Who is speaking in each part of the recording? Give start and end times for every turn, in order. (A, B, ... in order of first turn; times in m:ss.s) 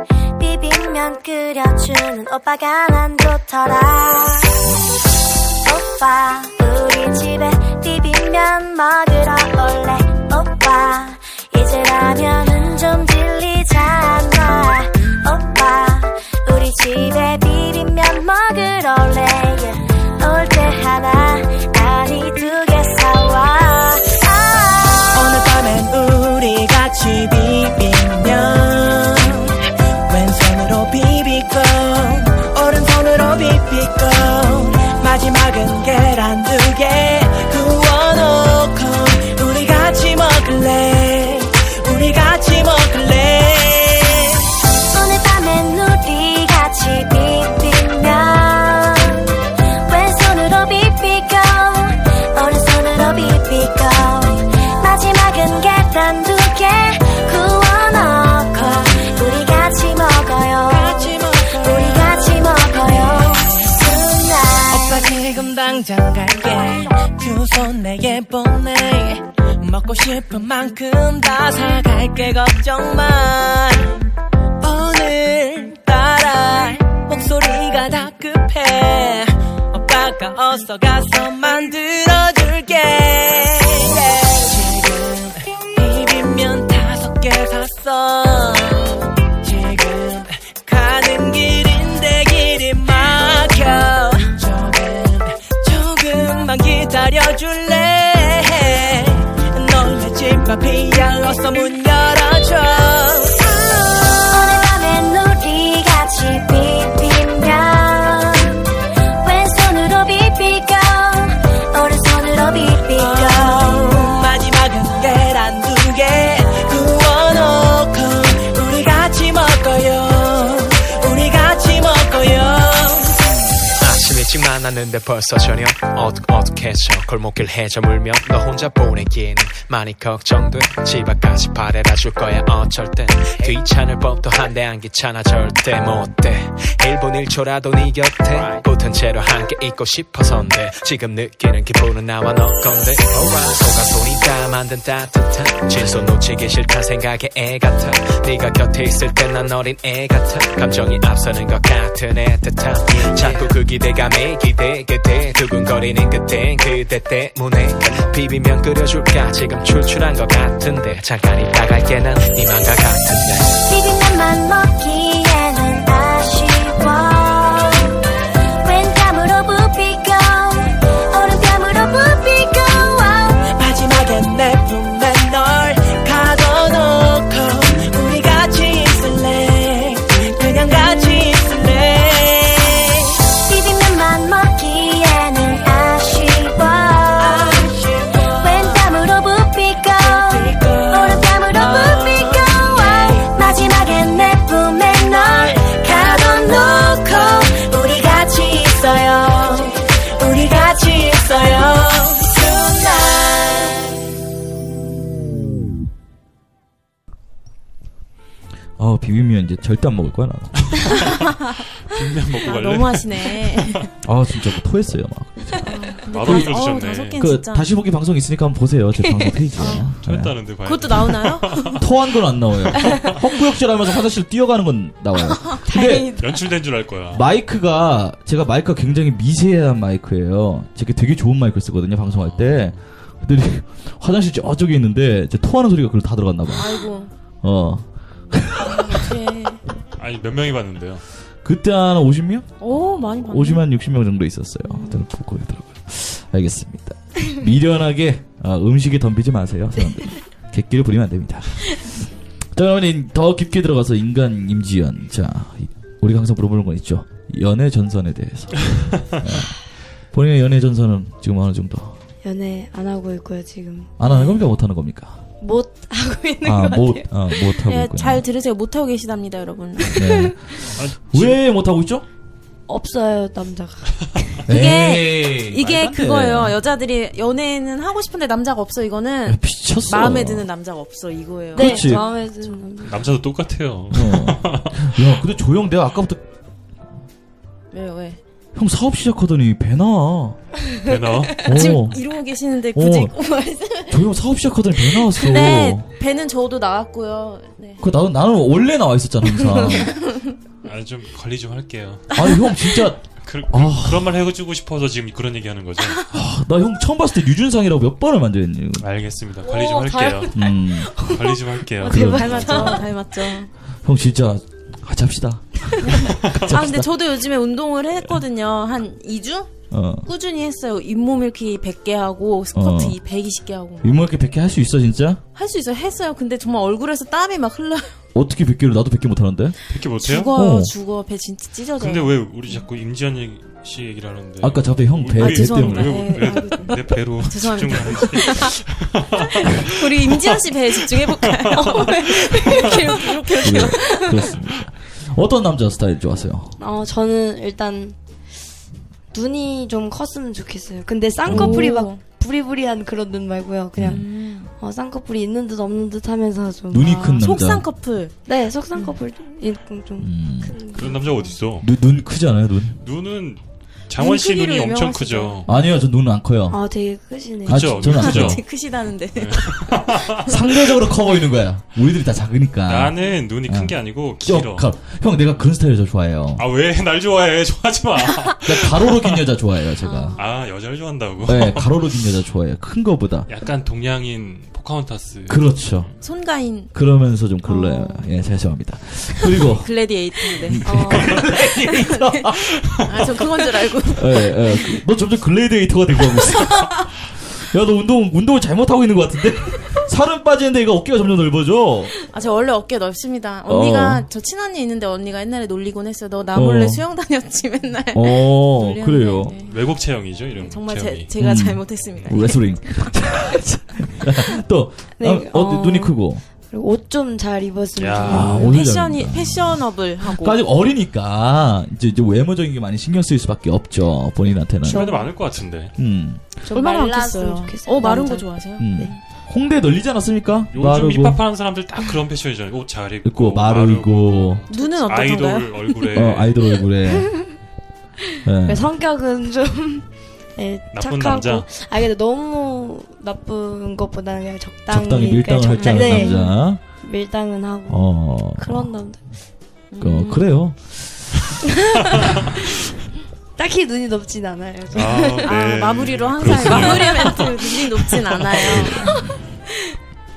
0:00.4-0:04.7 A
0:05.6-0:25.3 A
0:25.1-0:29.6 B
0:30.1-0:44.4 B
0:44.9-0:49.3 A
0:49.9-1:05.1 A
0:58.6-0:59.1 B
1:00.7-1:02.3 B
1:03.0-1:04.0 B
1:04.7-1:14.0 B
1:14.6-1:43.4 B
1:43.5-1:48.6 A
1:49.2-1:54.0 A
1:53.0-2:03.3 B
2:03.8-2:43.6 C
2:43.6-2:47.9 A
2:48.6-2:53.4 A
2:53.5-3:03.2 B
3:03.4-3:07.7 A
3:07.2-3:08.8 B
3:08.3-3:18.3 A
3:10.0-3:13.3 B
3:16.0-3:23.8 B
3:18.9-3:19.6 A
3:28.8-3:30.7 D
3:30.6-3:31.1 E
3:31.9-3:33.9 E
3:32.4-3:33.9 F
3:34.0-3:35.7 D
3:35.6-3:37.7 F
3:36.1-3:37.2 E
3:36.2-3:36.5 D
3:37.2-3:40.3 D
3:39.1-3:39.8 G
3:39.6-3:39.9 F
3:40.0-3:41.8 E
3:40.6-3:41.8 F
3:41.8-3:46.1 D
3:45.7-3:46.4 G
3:46.2-3:47.2 E
3:47.1-3:56.9 D
3:52.1-3:52.8 E
3:56.6-3:57.1 F
3:57.4-3:59.1 D
3:58.6-3:59.6 F
4:00.0-4:01.0 E
4:01.4-4:19.6 D
4:02.6-4:03.6 F
4:04.6-4:05.0 F
4:20.1-4:22.0 D
4:22.2-4:24.4 G
4:24.0-4:25.2 D
4:25.4-4:27.1 G
4:26.4-4:28.2 D
4:27.6-4:30.3 F
4:29.9-4:32.0 D
4:30.8-4:31.4 E
4:32.7-4:34.4 G
4:34.5-4:36.6 D
4:34.5-4:42.5 F
4:39.3-4:40.5 D
4:41.6-4:42.0 D
4:41.6-4:43.0 G
4:42.8-4:45.0 E
4:43.9-4:46.2 D
4:47.7-4:48.2 F
4:48.5-4:50.4 D
4:50.9-4:51.5 E
4:50.9-4:51.2 G
4:51.4-4:52.0 D
4:51.5-4:54.0 F
4:52.7-4:53.1 D
4:53.9-4:55.9 D
4:55.1-4:57.8 F
4:57.8-5:00.0 D
4:59.7-5:00.3 F
5:00.6-5:02.1 E
5:02.1-5:04.1 D
5:03.2-5:06.0 E
5:06.1-5:08.8 D
5:08.8-5:10.4 E
5:09.4-5:12.9 G
5:10.3-5:11.0 D
5:11.0-5:12.8 E
5:11.8-5:12.7 D
5:12.2-5:13.5 F
5:13.8-5:16.9 D
5:15.8-5:19.5 F
5:19.7-5:20.1 D
5:20.0-5:24.0 F
5:22.5-5:23.0 D
5:23.8-5:25.2 D
5:25.3-5:28.0 F
5:28.1-5:29.6 D
5:29.7-5:30.3 E
5:30.0-5:32.2 F
5:30.3-5:30.7 D
5:31.8-5:40.3 E
5:34.4-5:36.3 D
5:35.2-5:38.6 F
5:39.6-5:44.2 F
5:40.9-5:42.8 E
5:41.6-5:43.6 G
5:43.4-5:46.6 D
5:46.6-5:48.0 G
5:49.1-5:57.1 G
5:51.3-5:51.8 D
5:51.3-5:52.0 F
5:53.8-5:54.0 D
5:53.8-5:54.5 F
5:56.7-5:57.6 D
5:56.8-5:58.1 F
5:58.3-6:01.2 G
6:00.0-6:00.6 D
6:00.7-6:01.7 E
6:01.6-6:02.8 D
6:02.8-6:05.5 E
6:04.0-6:05.5 F
6:05.4-6:06.6 D
6:06.5-6:08.0 G
6:07.4-6:08.4 D
6:07.5-6:08.4 E
6:08.0-6:10.2 F
6:09.2-6:10.3 E
6:10.2-6:16.4 D
6:12.7-6:14.7 E
6:16.4-6:19.3 E
6:18.4-6:20.2 D
6:19.9-6:20.1 F
6:20.2-6:21.8 E
6:21.2-6:23.3 D
6:23.3-6:25.9 E
6:25.3-6:25.9 D
6:26.0-6:26.7 F
6:26.7-6:29.7 D
6:27.4-6:28.1 F
6:29.4-6:31.1 F
6:30.3-6:32.9 D
6:30.6-6:31.3 G
6:31.9-6:32.2 F
6:32.8-6:34.7 F
6:33.9-6:41.9 D
6:42.1-6:49.6 F
6:43.4-6:44.0 D
6:46.3-6:46.8 D
6:47.9-6:49.3 D
6:49.4-6:51.1 E
6:50.4-6:52.9 F
6:51.2-6:56.2 D
6:55.0-6:56.0 G
6:56.5-6:58.6 G
6:57.8-6:58.4 E
6:58.0-7:05.0 D
6:58.2-7:00.4 F
7:04.6-7:05.7 E
7:05.8-7:06.2 D
7:06.4-7:08.9 G
7:06.5-7:09.0 F
7:08.6-7:11.2 D
7:10.5-7:16.4 E
7:13.0-7:14.4 D
7:14.5-7:15.8 F
7:15.9-7:17.3 D
7:16.9-7:17.2 G
7:18.2-7:18.7 D
7:18.4-7:26.3 G
7:20.7-7:21.5 E
7:24.7-7:26.6 D
7:25.5-7:26.4 F
7:26.8-7:29.0 G
7:27.7-7:28.7 D
7:29.7-7:30.3 F
7:29.8-7:31.2 D
7:31.9-7:32.3 G
7:33.4-7:35.7 G
7:34.7-7:37.3 E
7:35.2-7:38.9 F
7:36.2-7:36.8 D
7:36.3-7:37.7 G
7:38.5-7:39.1 G
7:38.5-7:39.2 D